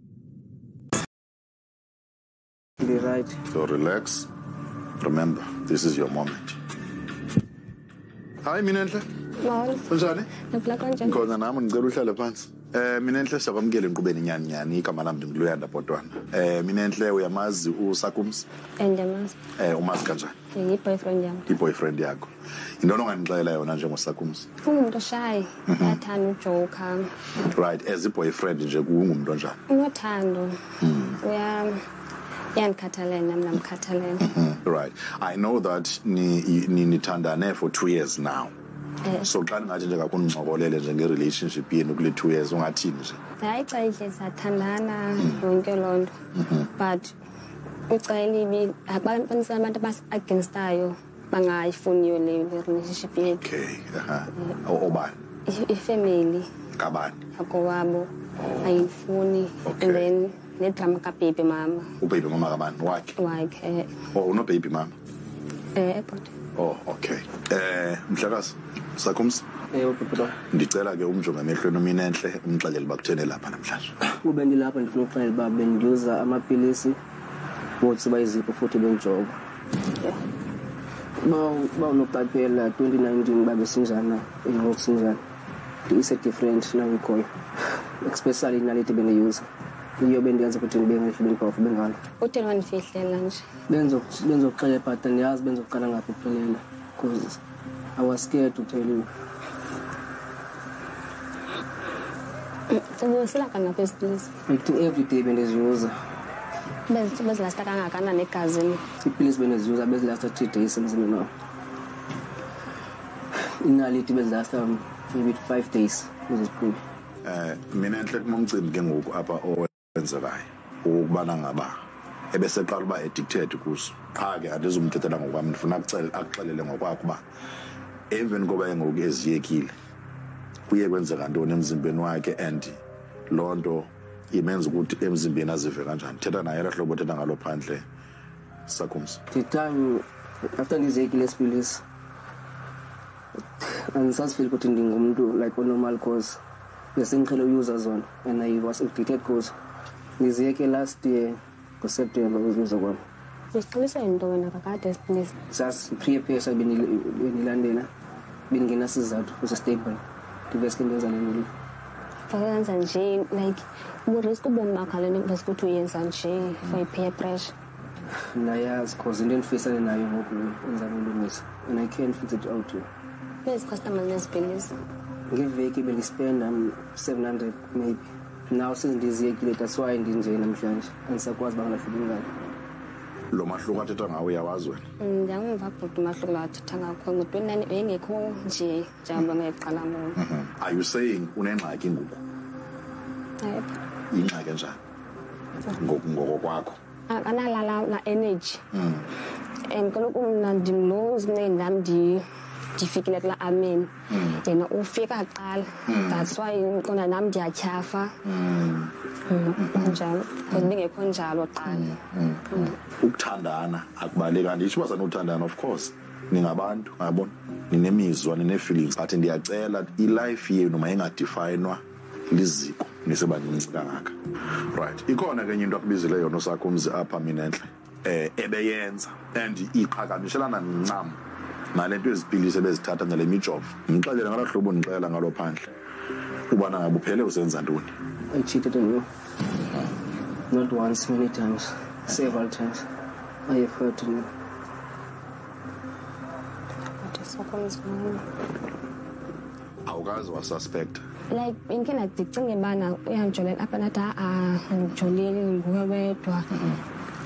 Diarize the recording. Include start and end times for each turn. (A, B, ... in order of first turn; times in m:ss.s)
0:02.8-0:03.4 A
0:03.5-0:04.3 B
0:05.0-0:06.6 B
0:08.4-0:09.1 B
0:09.4-0:11.2 C
0:09.9-0:10.3 B
0:11.0-0:18.4 B
0:18.8-0:19.4 C
0:19.6-0:20.4 B
0:20.5-0:21.5 C
0:21.5-0:22.3 B
0:22.8-0:24.5 B
0:24.6-0:27.1 C
0:25.7-0:26.0 B
0:27.4-0:29.6 B
0:29.7-0:30.6 C
0:30.8-0:31.2 B
0:31.2-0:31.8 C
0:32.6-0:34.3 C
0:34.2-0:38.5 B
0:39.2-0:43.2 B
0:43.4-0:46.1 C
0:46.4-0:46.7 B
0:46.8-0:47.1 C
0:47.9-0:53.4 C
0:53.3-0:55.2 B
0:55.5-0:56.5 C
0:56.8-0:57.2 B
0:57.3-1:01.9 C
0:59.6-1:00.1 B
1:02.0-1:03.2 B
1:03.2-1:04.0 C
1:04.1-1:04.9 B
1:05.8-1:06.3 C
1:06.6-1:09.4 B
1:09.7-1:10.4 A
1:10.5-1:13.9 B
1:14.0-1:17.0 A
1:17.8-1:19.4 A
1:21.2-1:25.2 A
1:25.9-1:27.3 A
1:28.0-1:29.5 A
1:30.0-1:32.0 A
1:32.2-1:33.4 C
1:33.7-1:37.4 A
1:38.0-1:39.1 A
1:42.7-1:44.3 C
1:44.5-1:45.9 A
1:46.9-1:48.8 C
1:49.0-1:51.3 A
1:53.4-1:56.8 A
1:57.2-2:01.8 B
2:02.3-2:07.2 B
2:08.1-2:09.7 B
2:10.7-2:12.8 B
2:13.3-2:17.8 B
2:18.7-2:19.2 B
2:19.3-2:21.8 A
2:23.6-2:26.4 A
2:27.0-2:29.5 A
2:30.2-2:33.0 A
2:33.5-2:35.3 C
2:35.5-2:37.9 A
2:38.5-2:41.5 A
2:42.3-2:47.5 C
2:48.3-2:52.9 A
2:53.4-2:54.7 C
2:55.3-3:02.3 A
3:03.3-3:04.8 B
3:05.0-3:10.2 C
3:10.2-3:12.2 B
3:13.4-3:13.8 C
3:14.1-3:14.8 B
3:15.8-3:16.8 B
3:17.1-3:18.6 C
3:18.7-3:19.1 B
3:19.7-3:22.2 C
3:22.8-3:28.2 C
3:24.1-3:24.4 B
3:25.9-3:26.3 B
3:28.2-3:28.9 B
3:29.3-3:31.9 C
3:29.6-3:30.7 B
3:31.6-3:51.2 B
3:51.7-3:55.7 B
3:56.5-3:58.0 B
3:58.3-3:59.1 A
4:00.5-4:02.8 A
4:02.1-4:02.4 B
4:03.5-4:04.3 A
4:07.0-4:08.2 C
4:09.9-4:11.0 B
4:11.3-4:16.5 C
4:16.6-4:16.8 B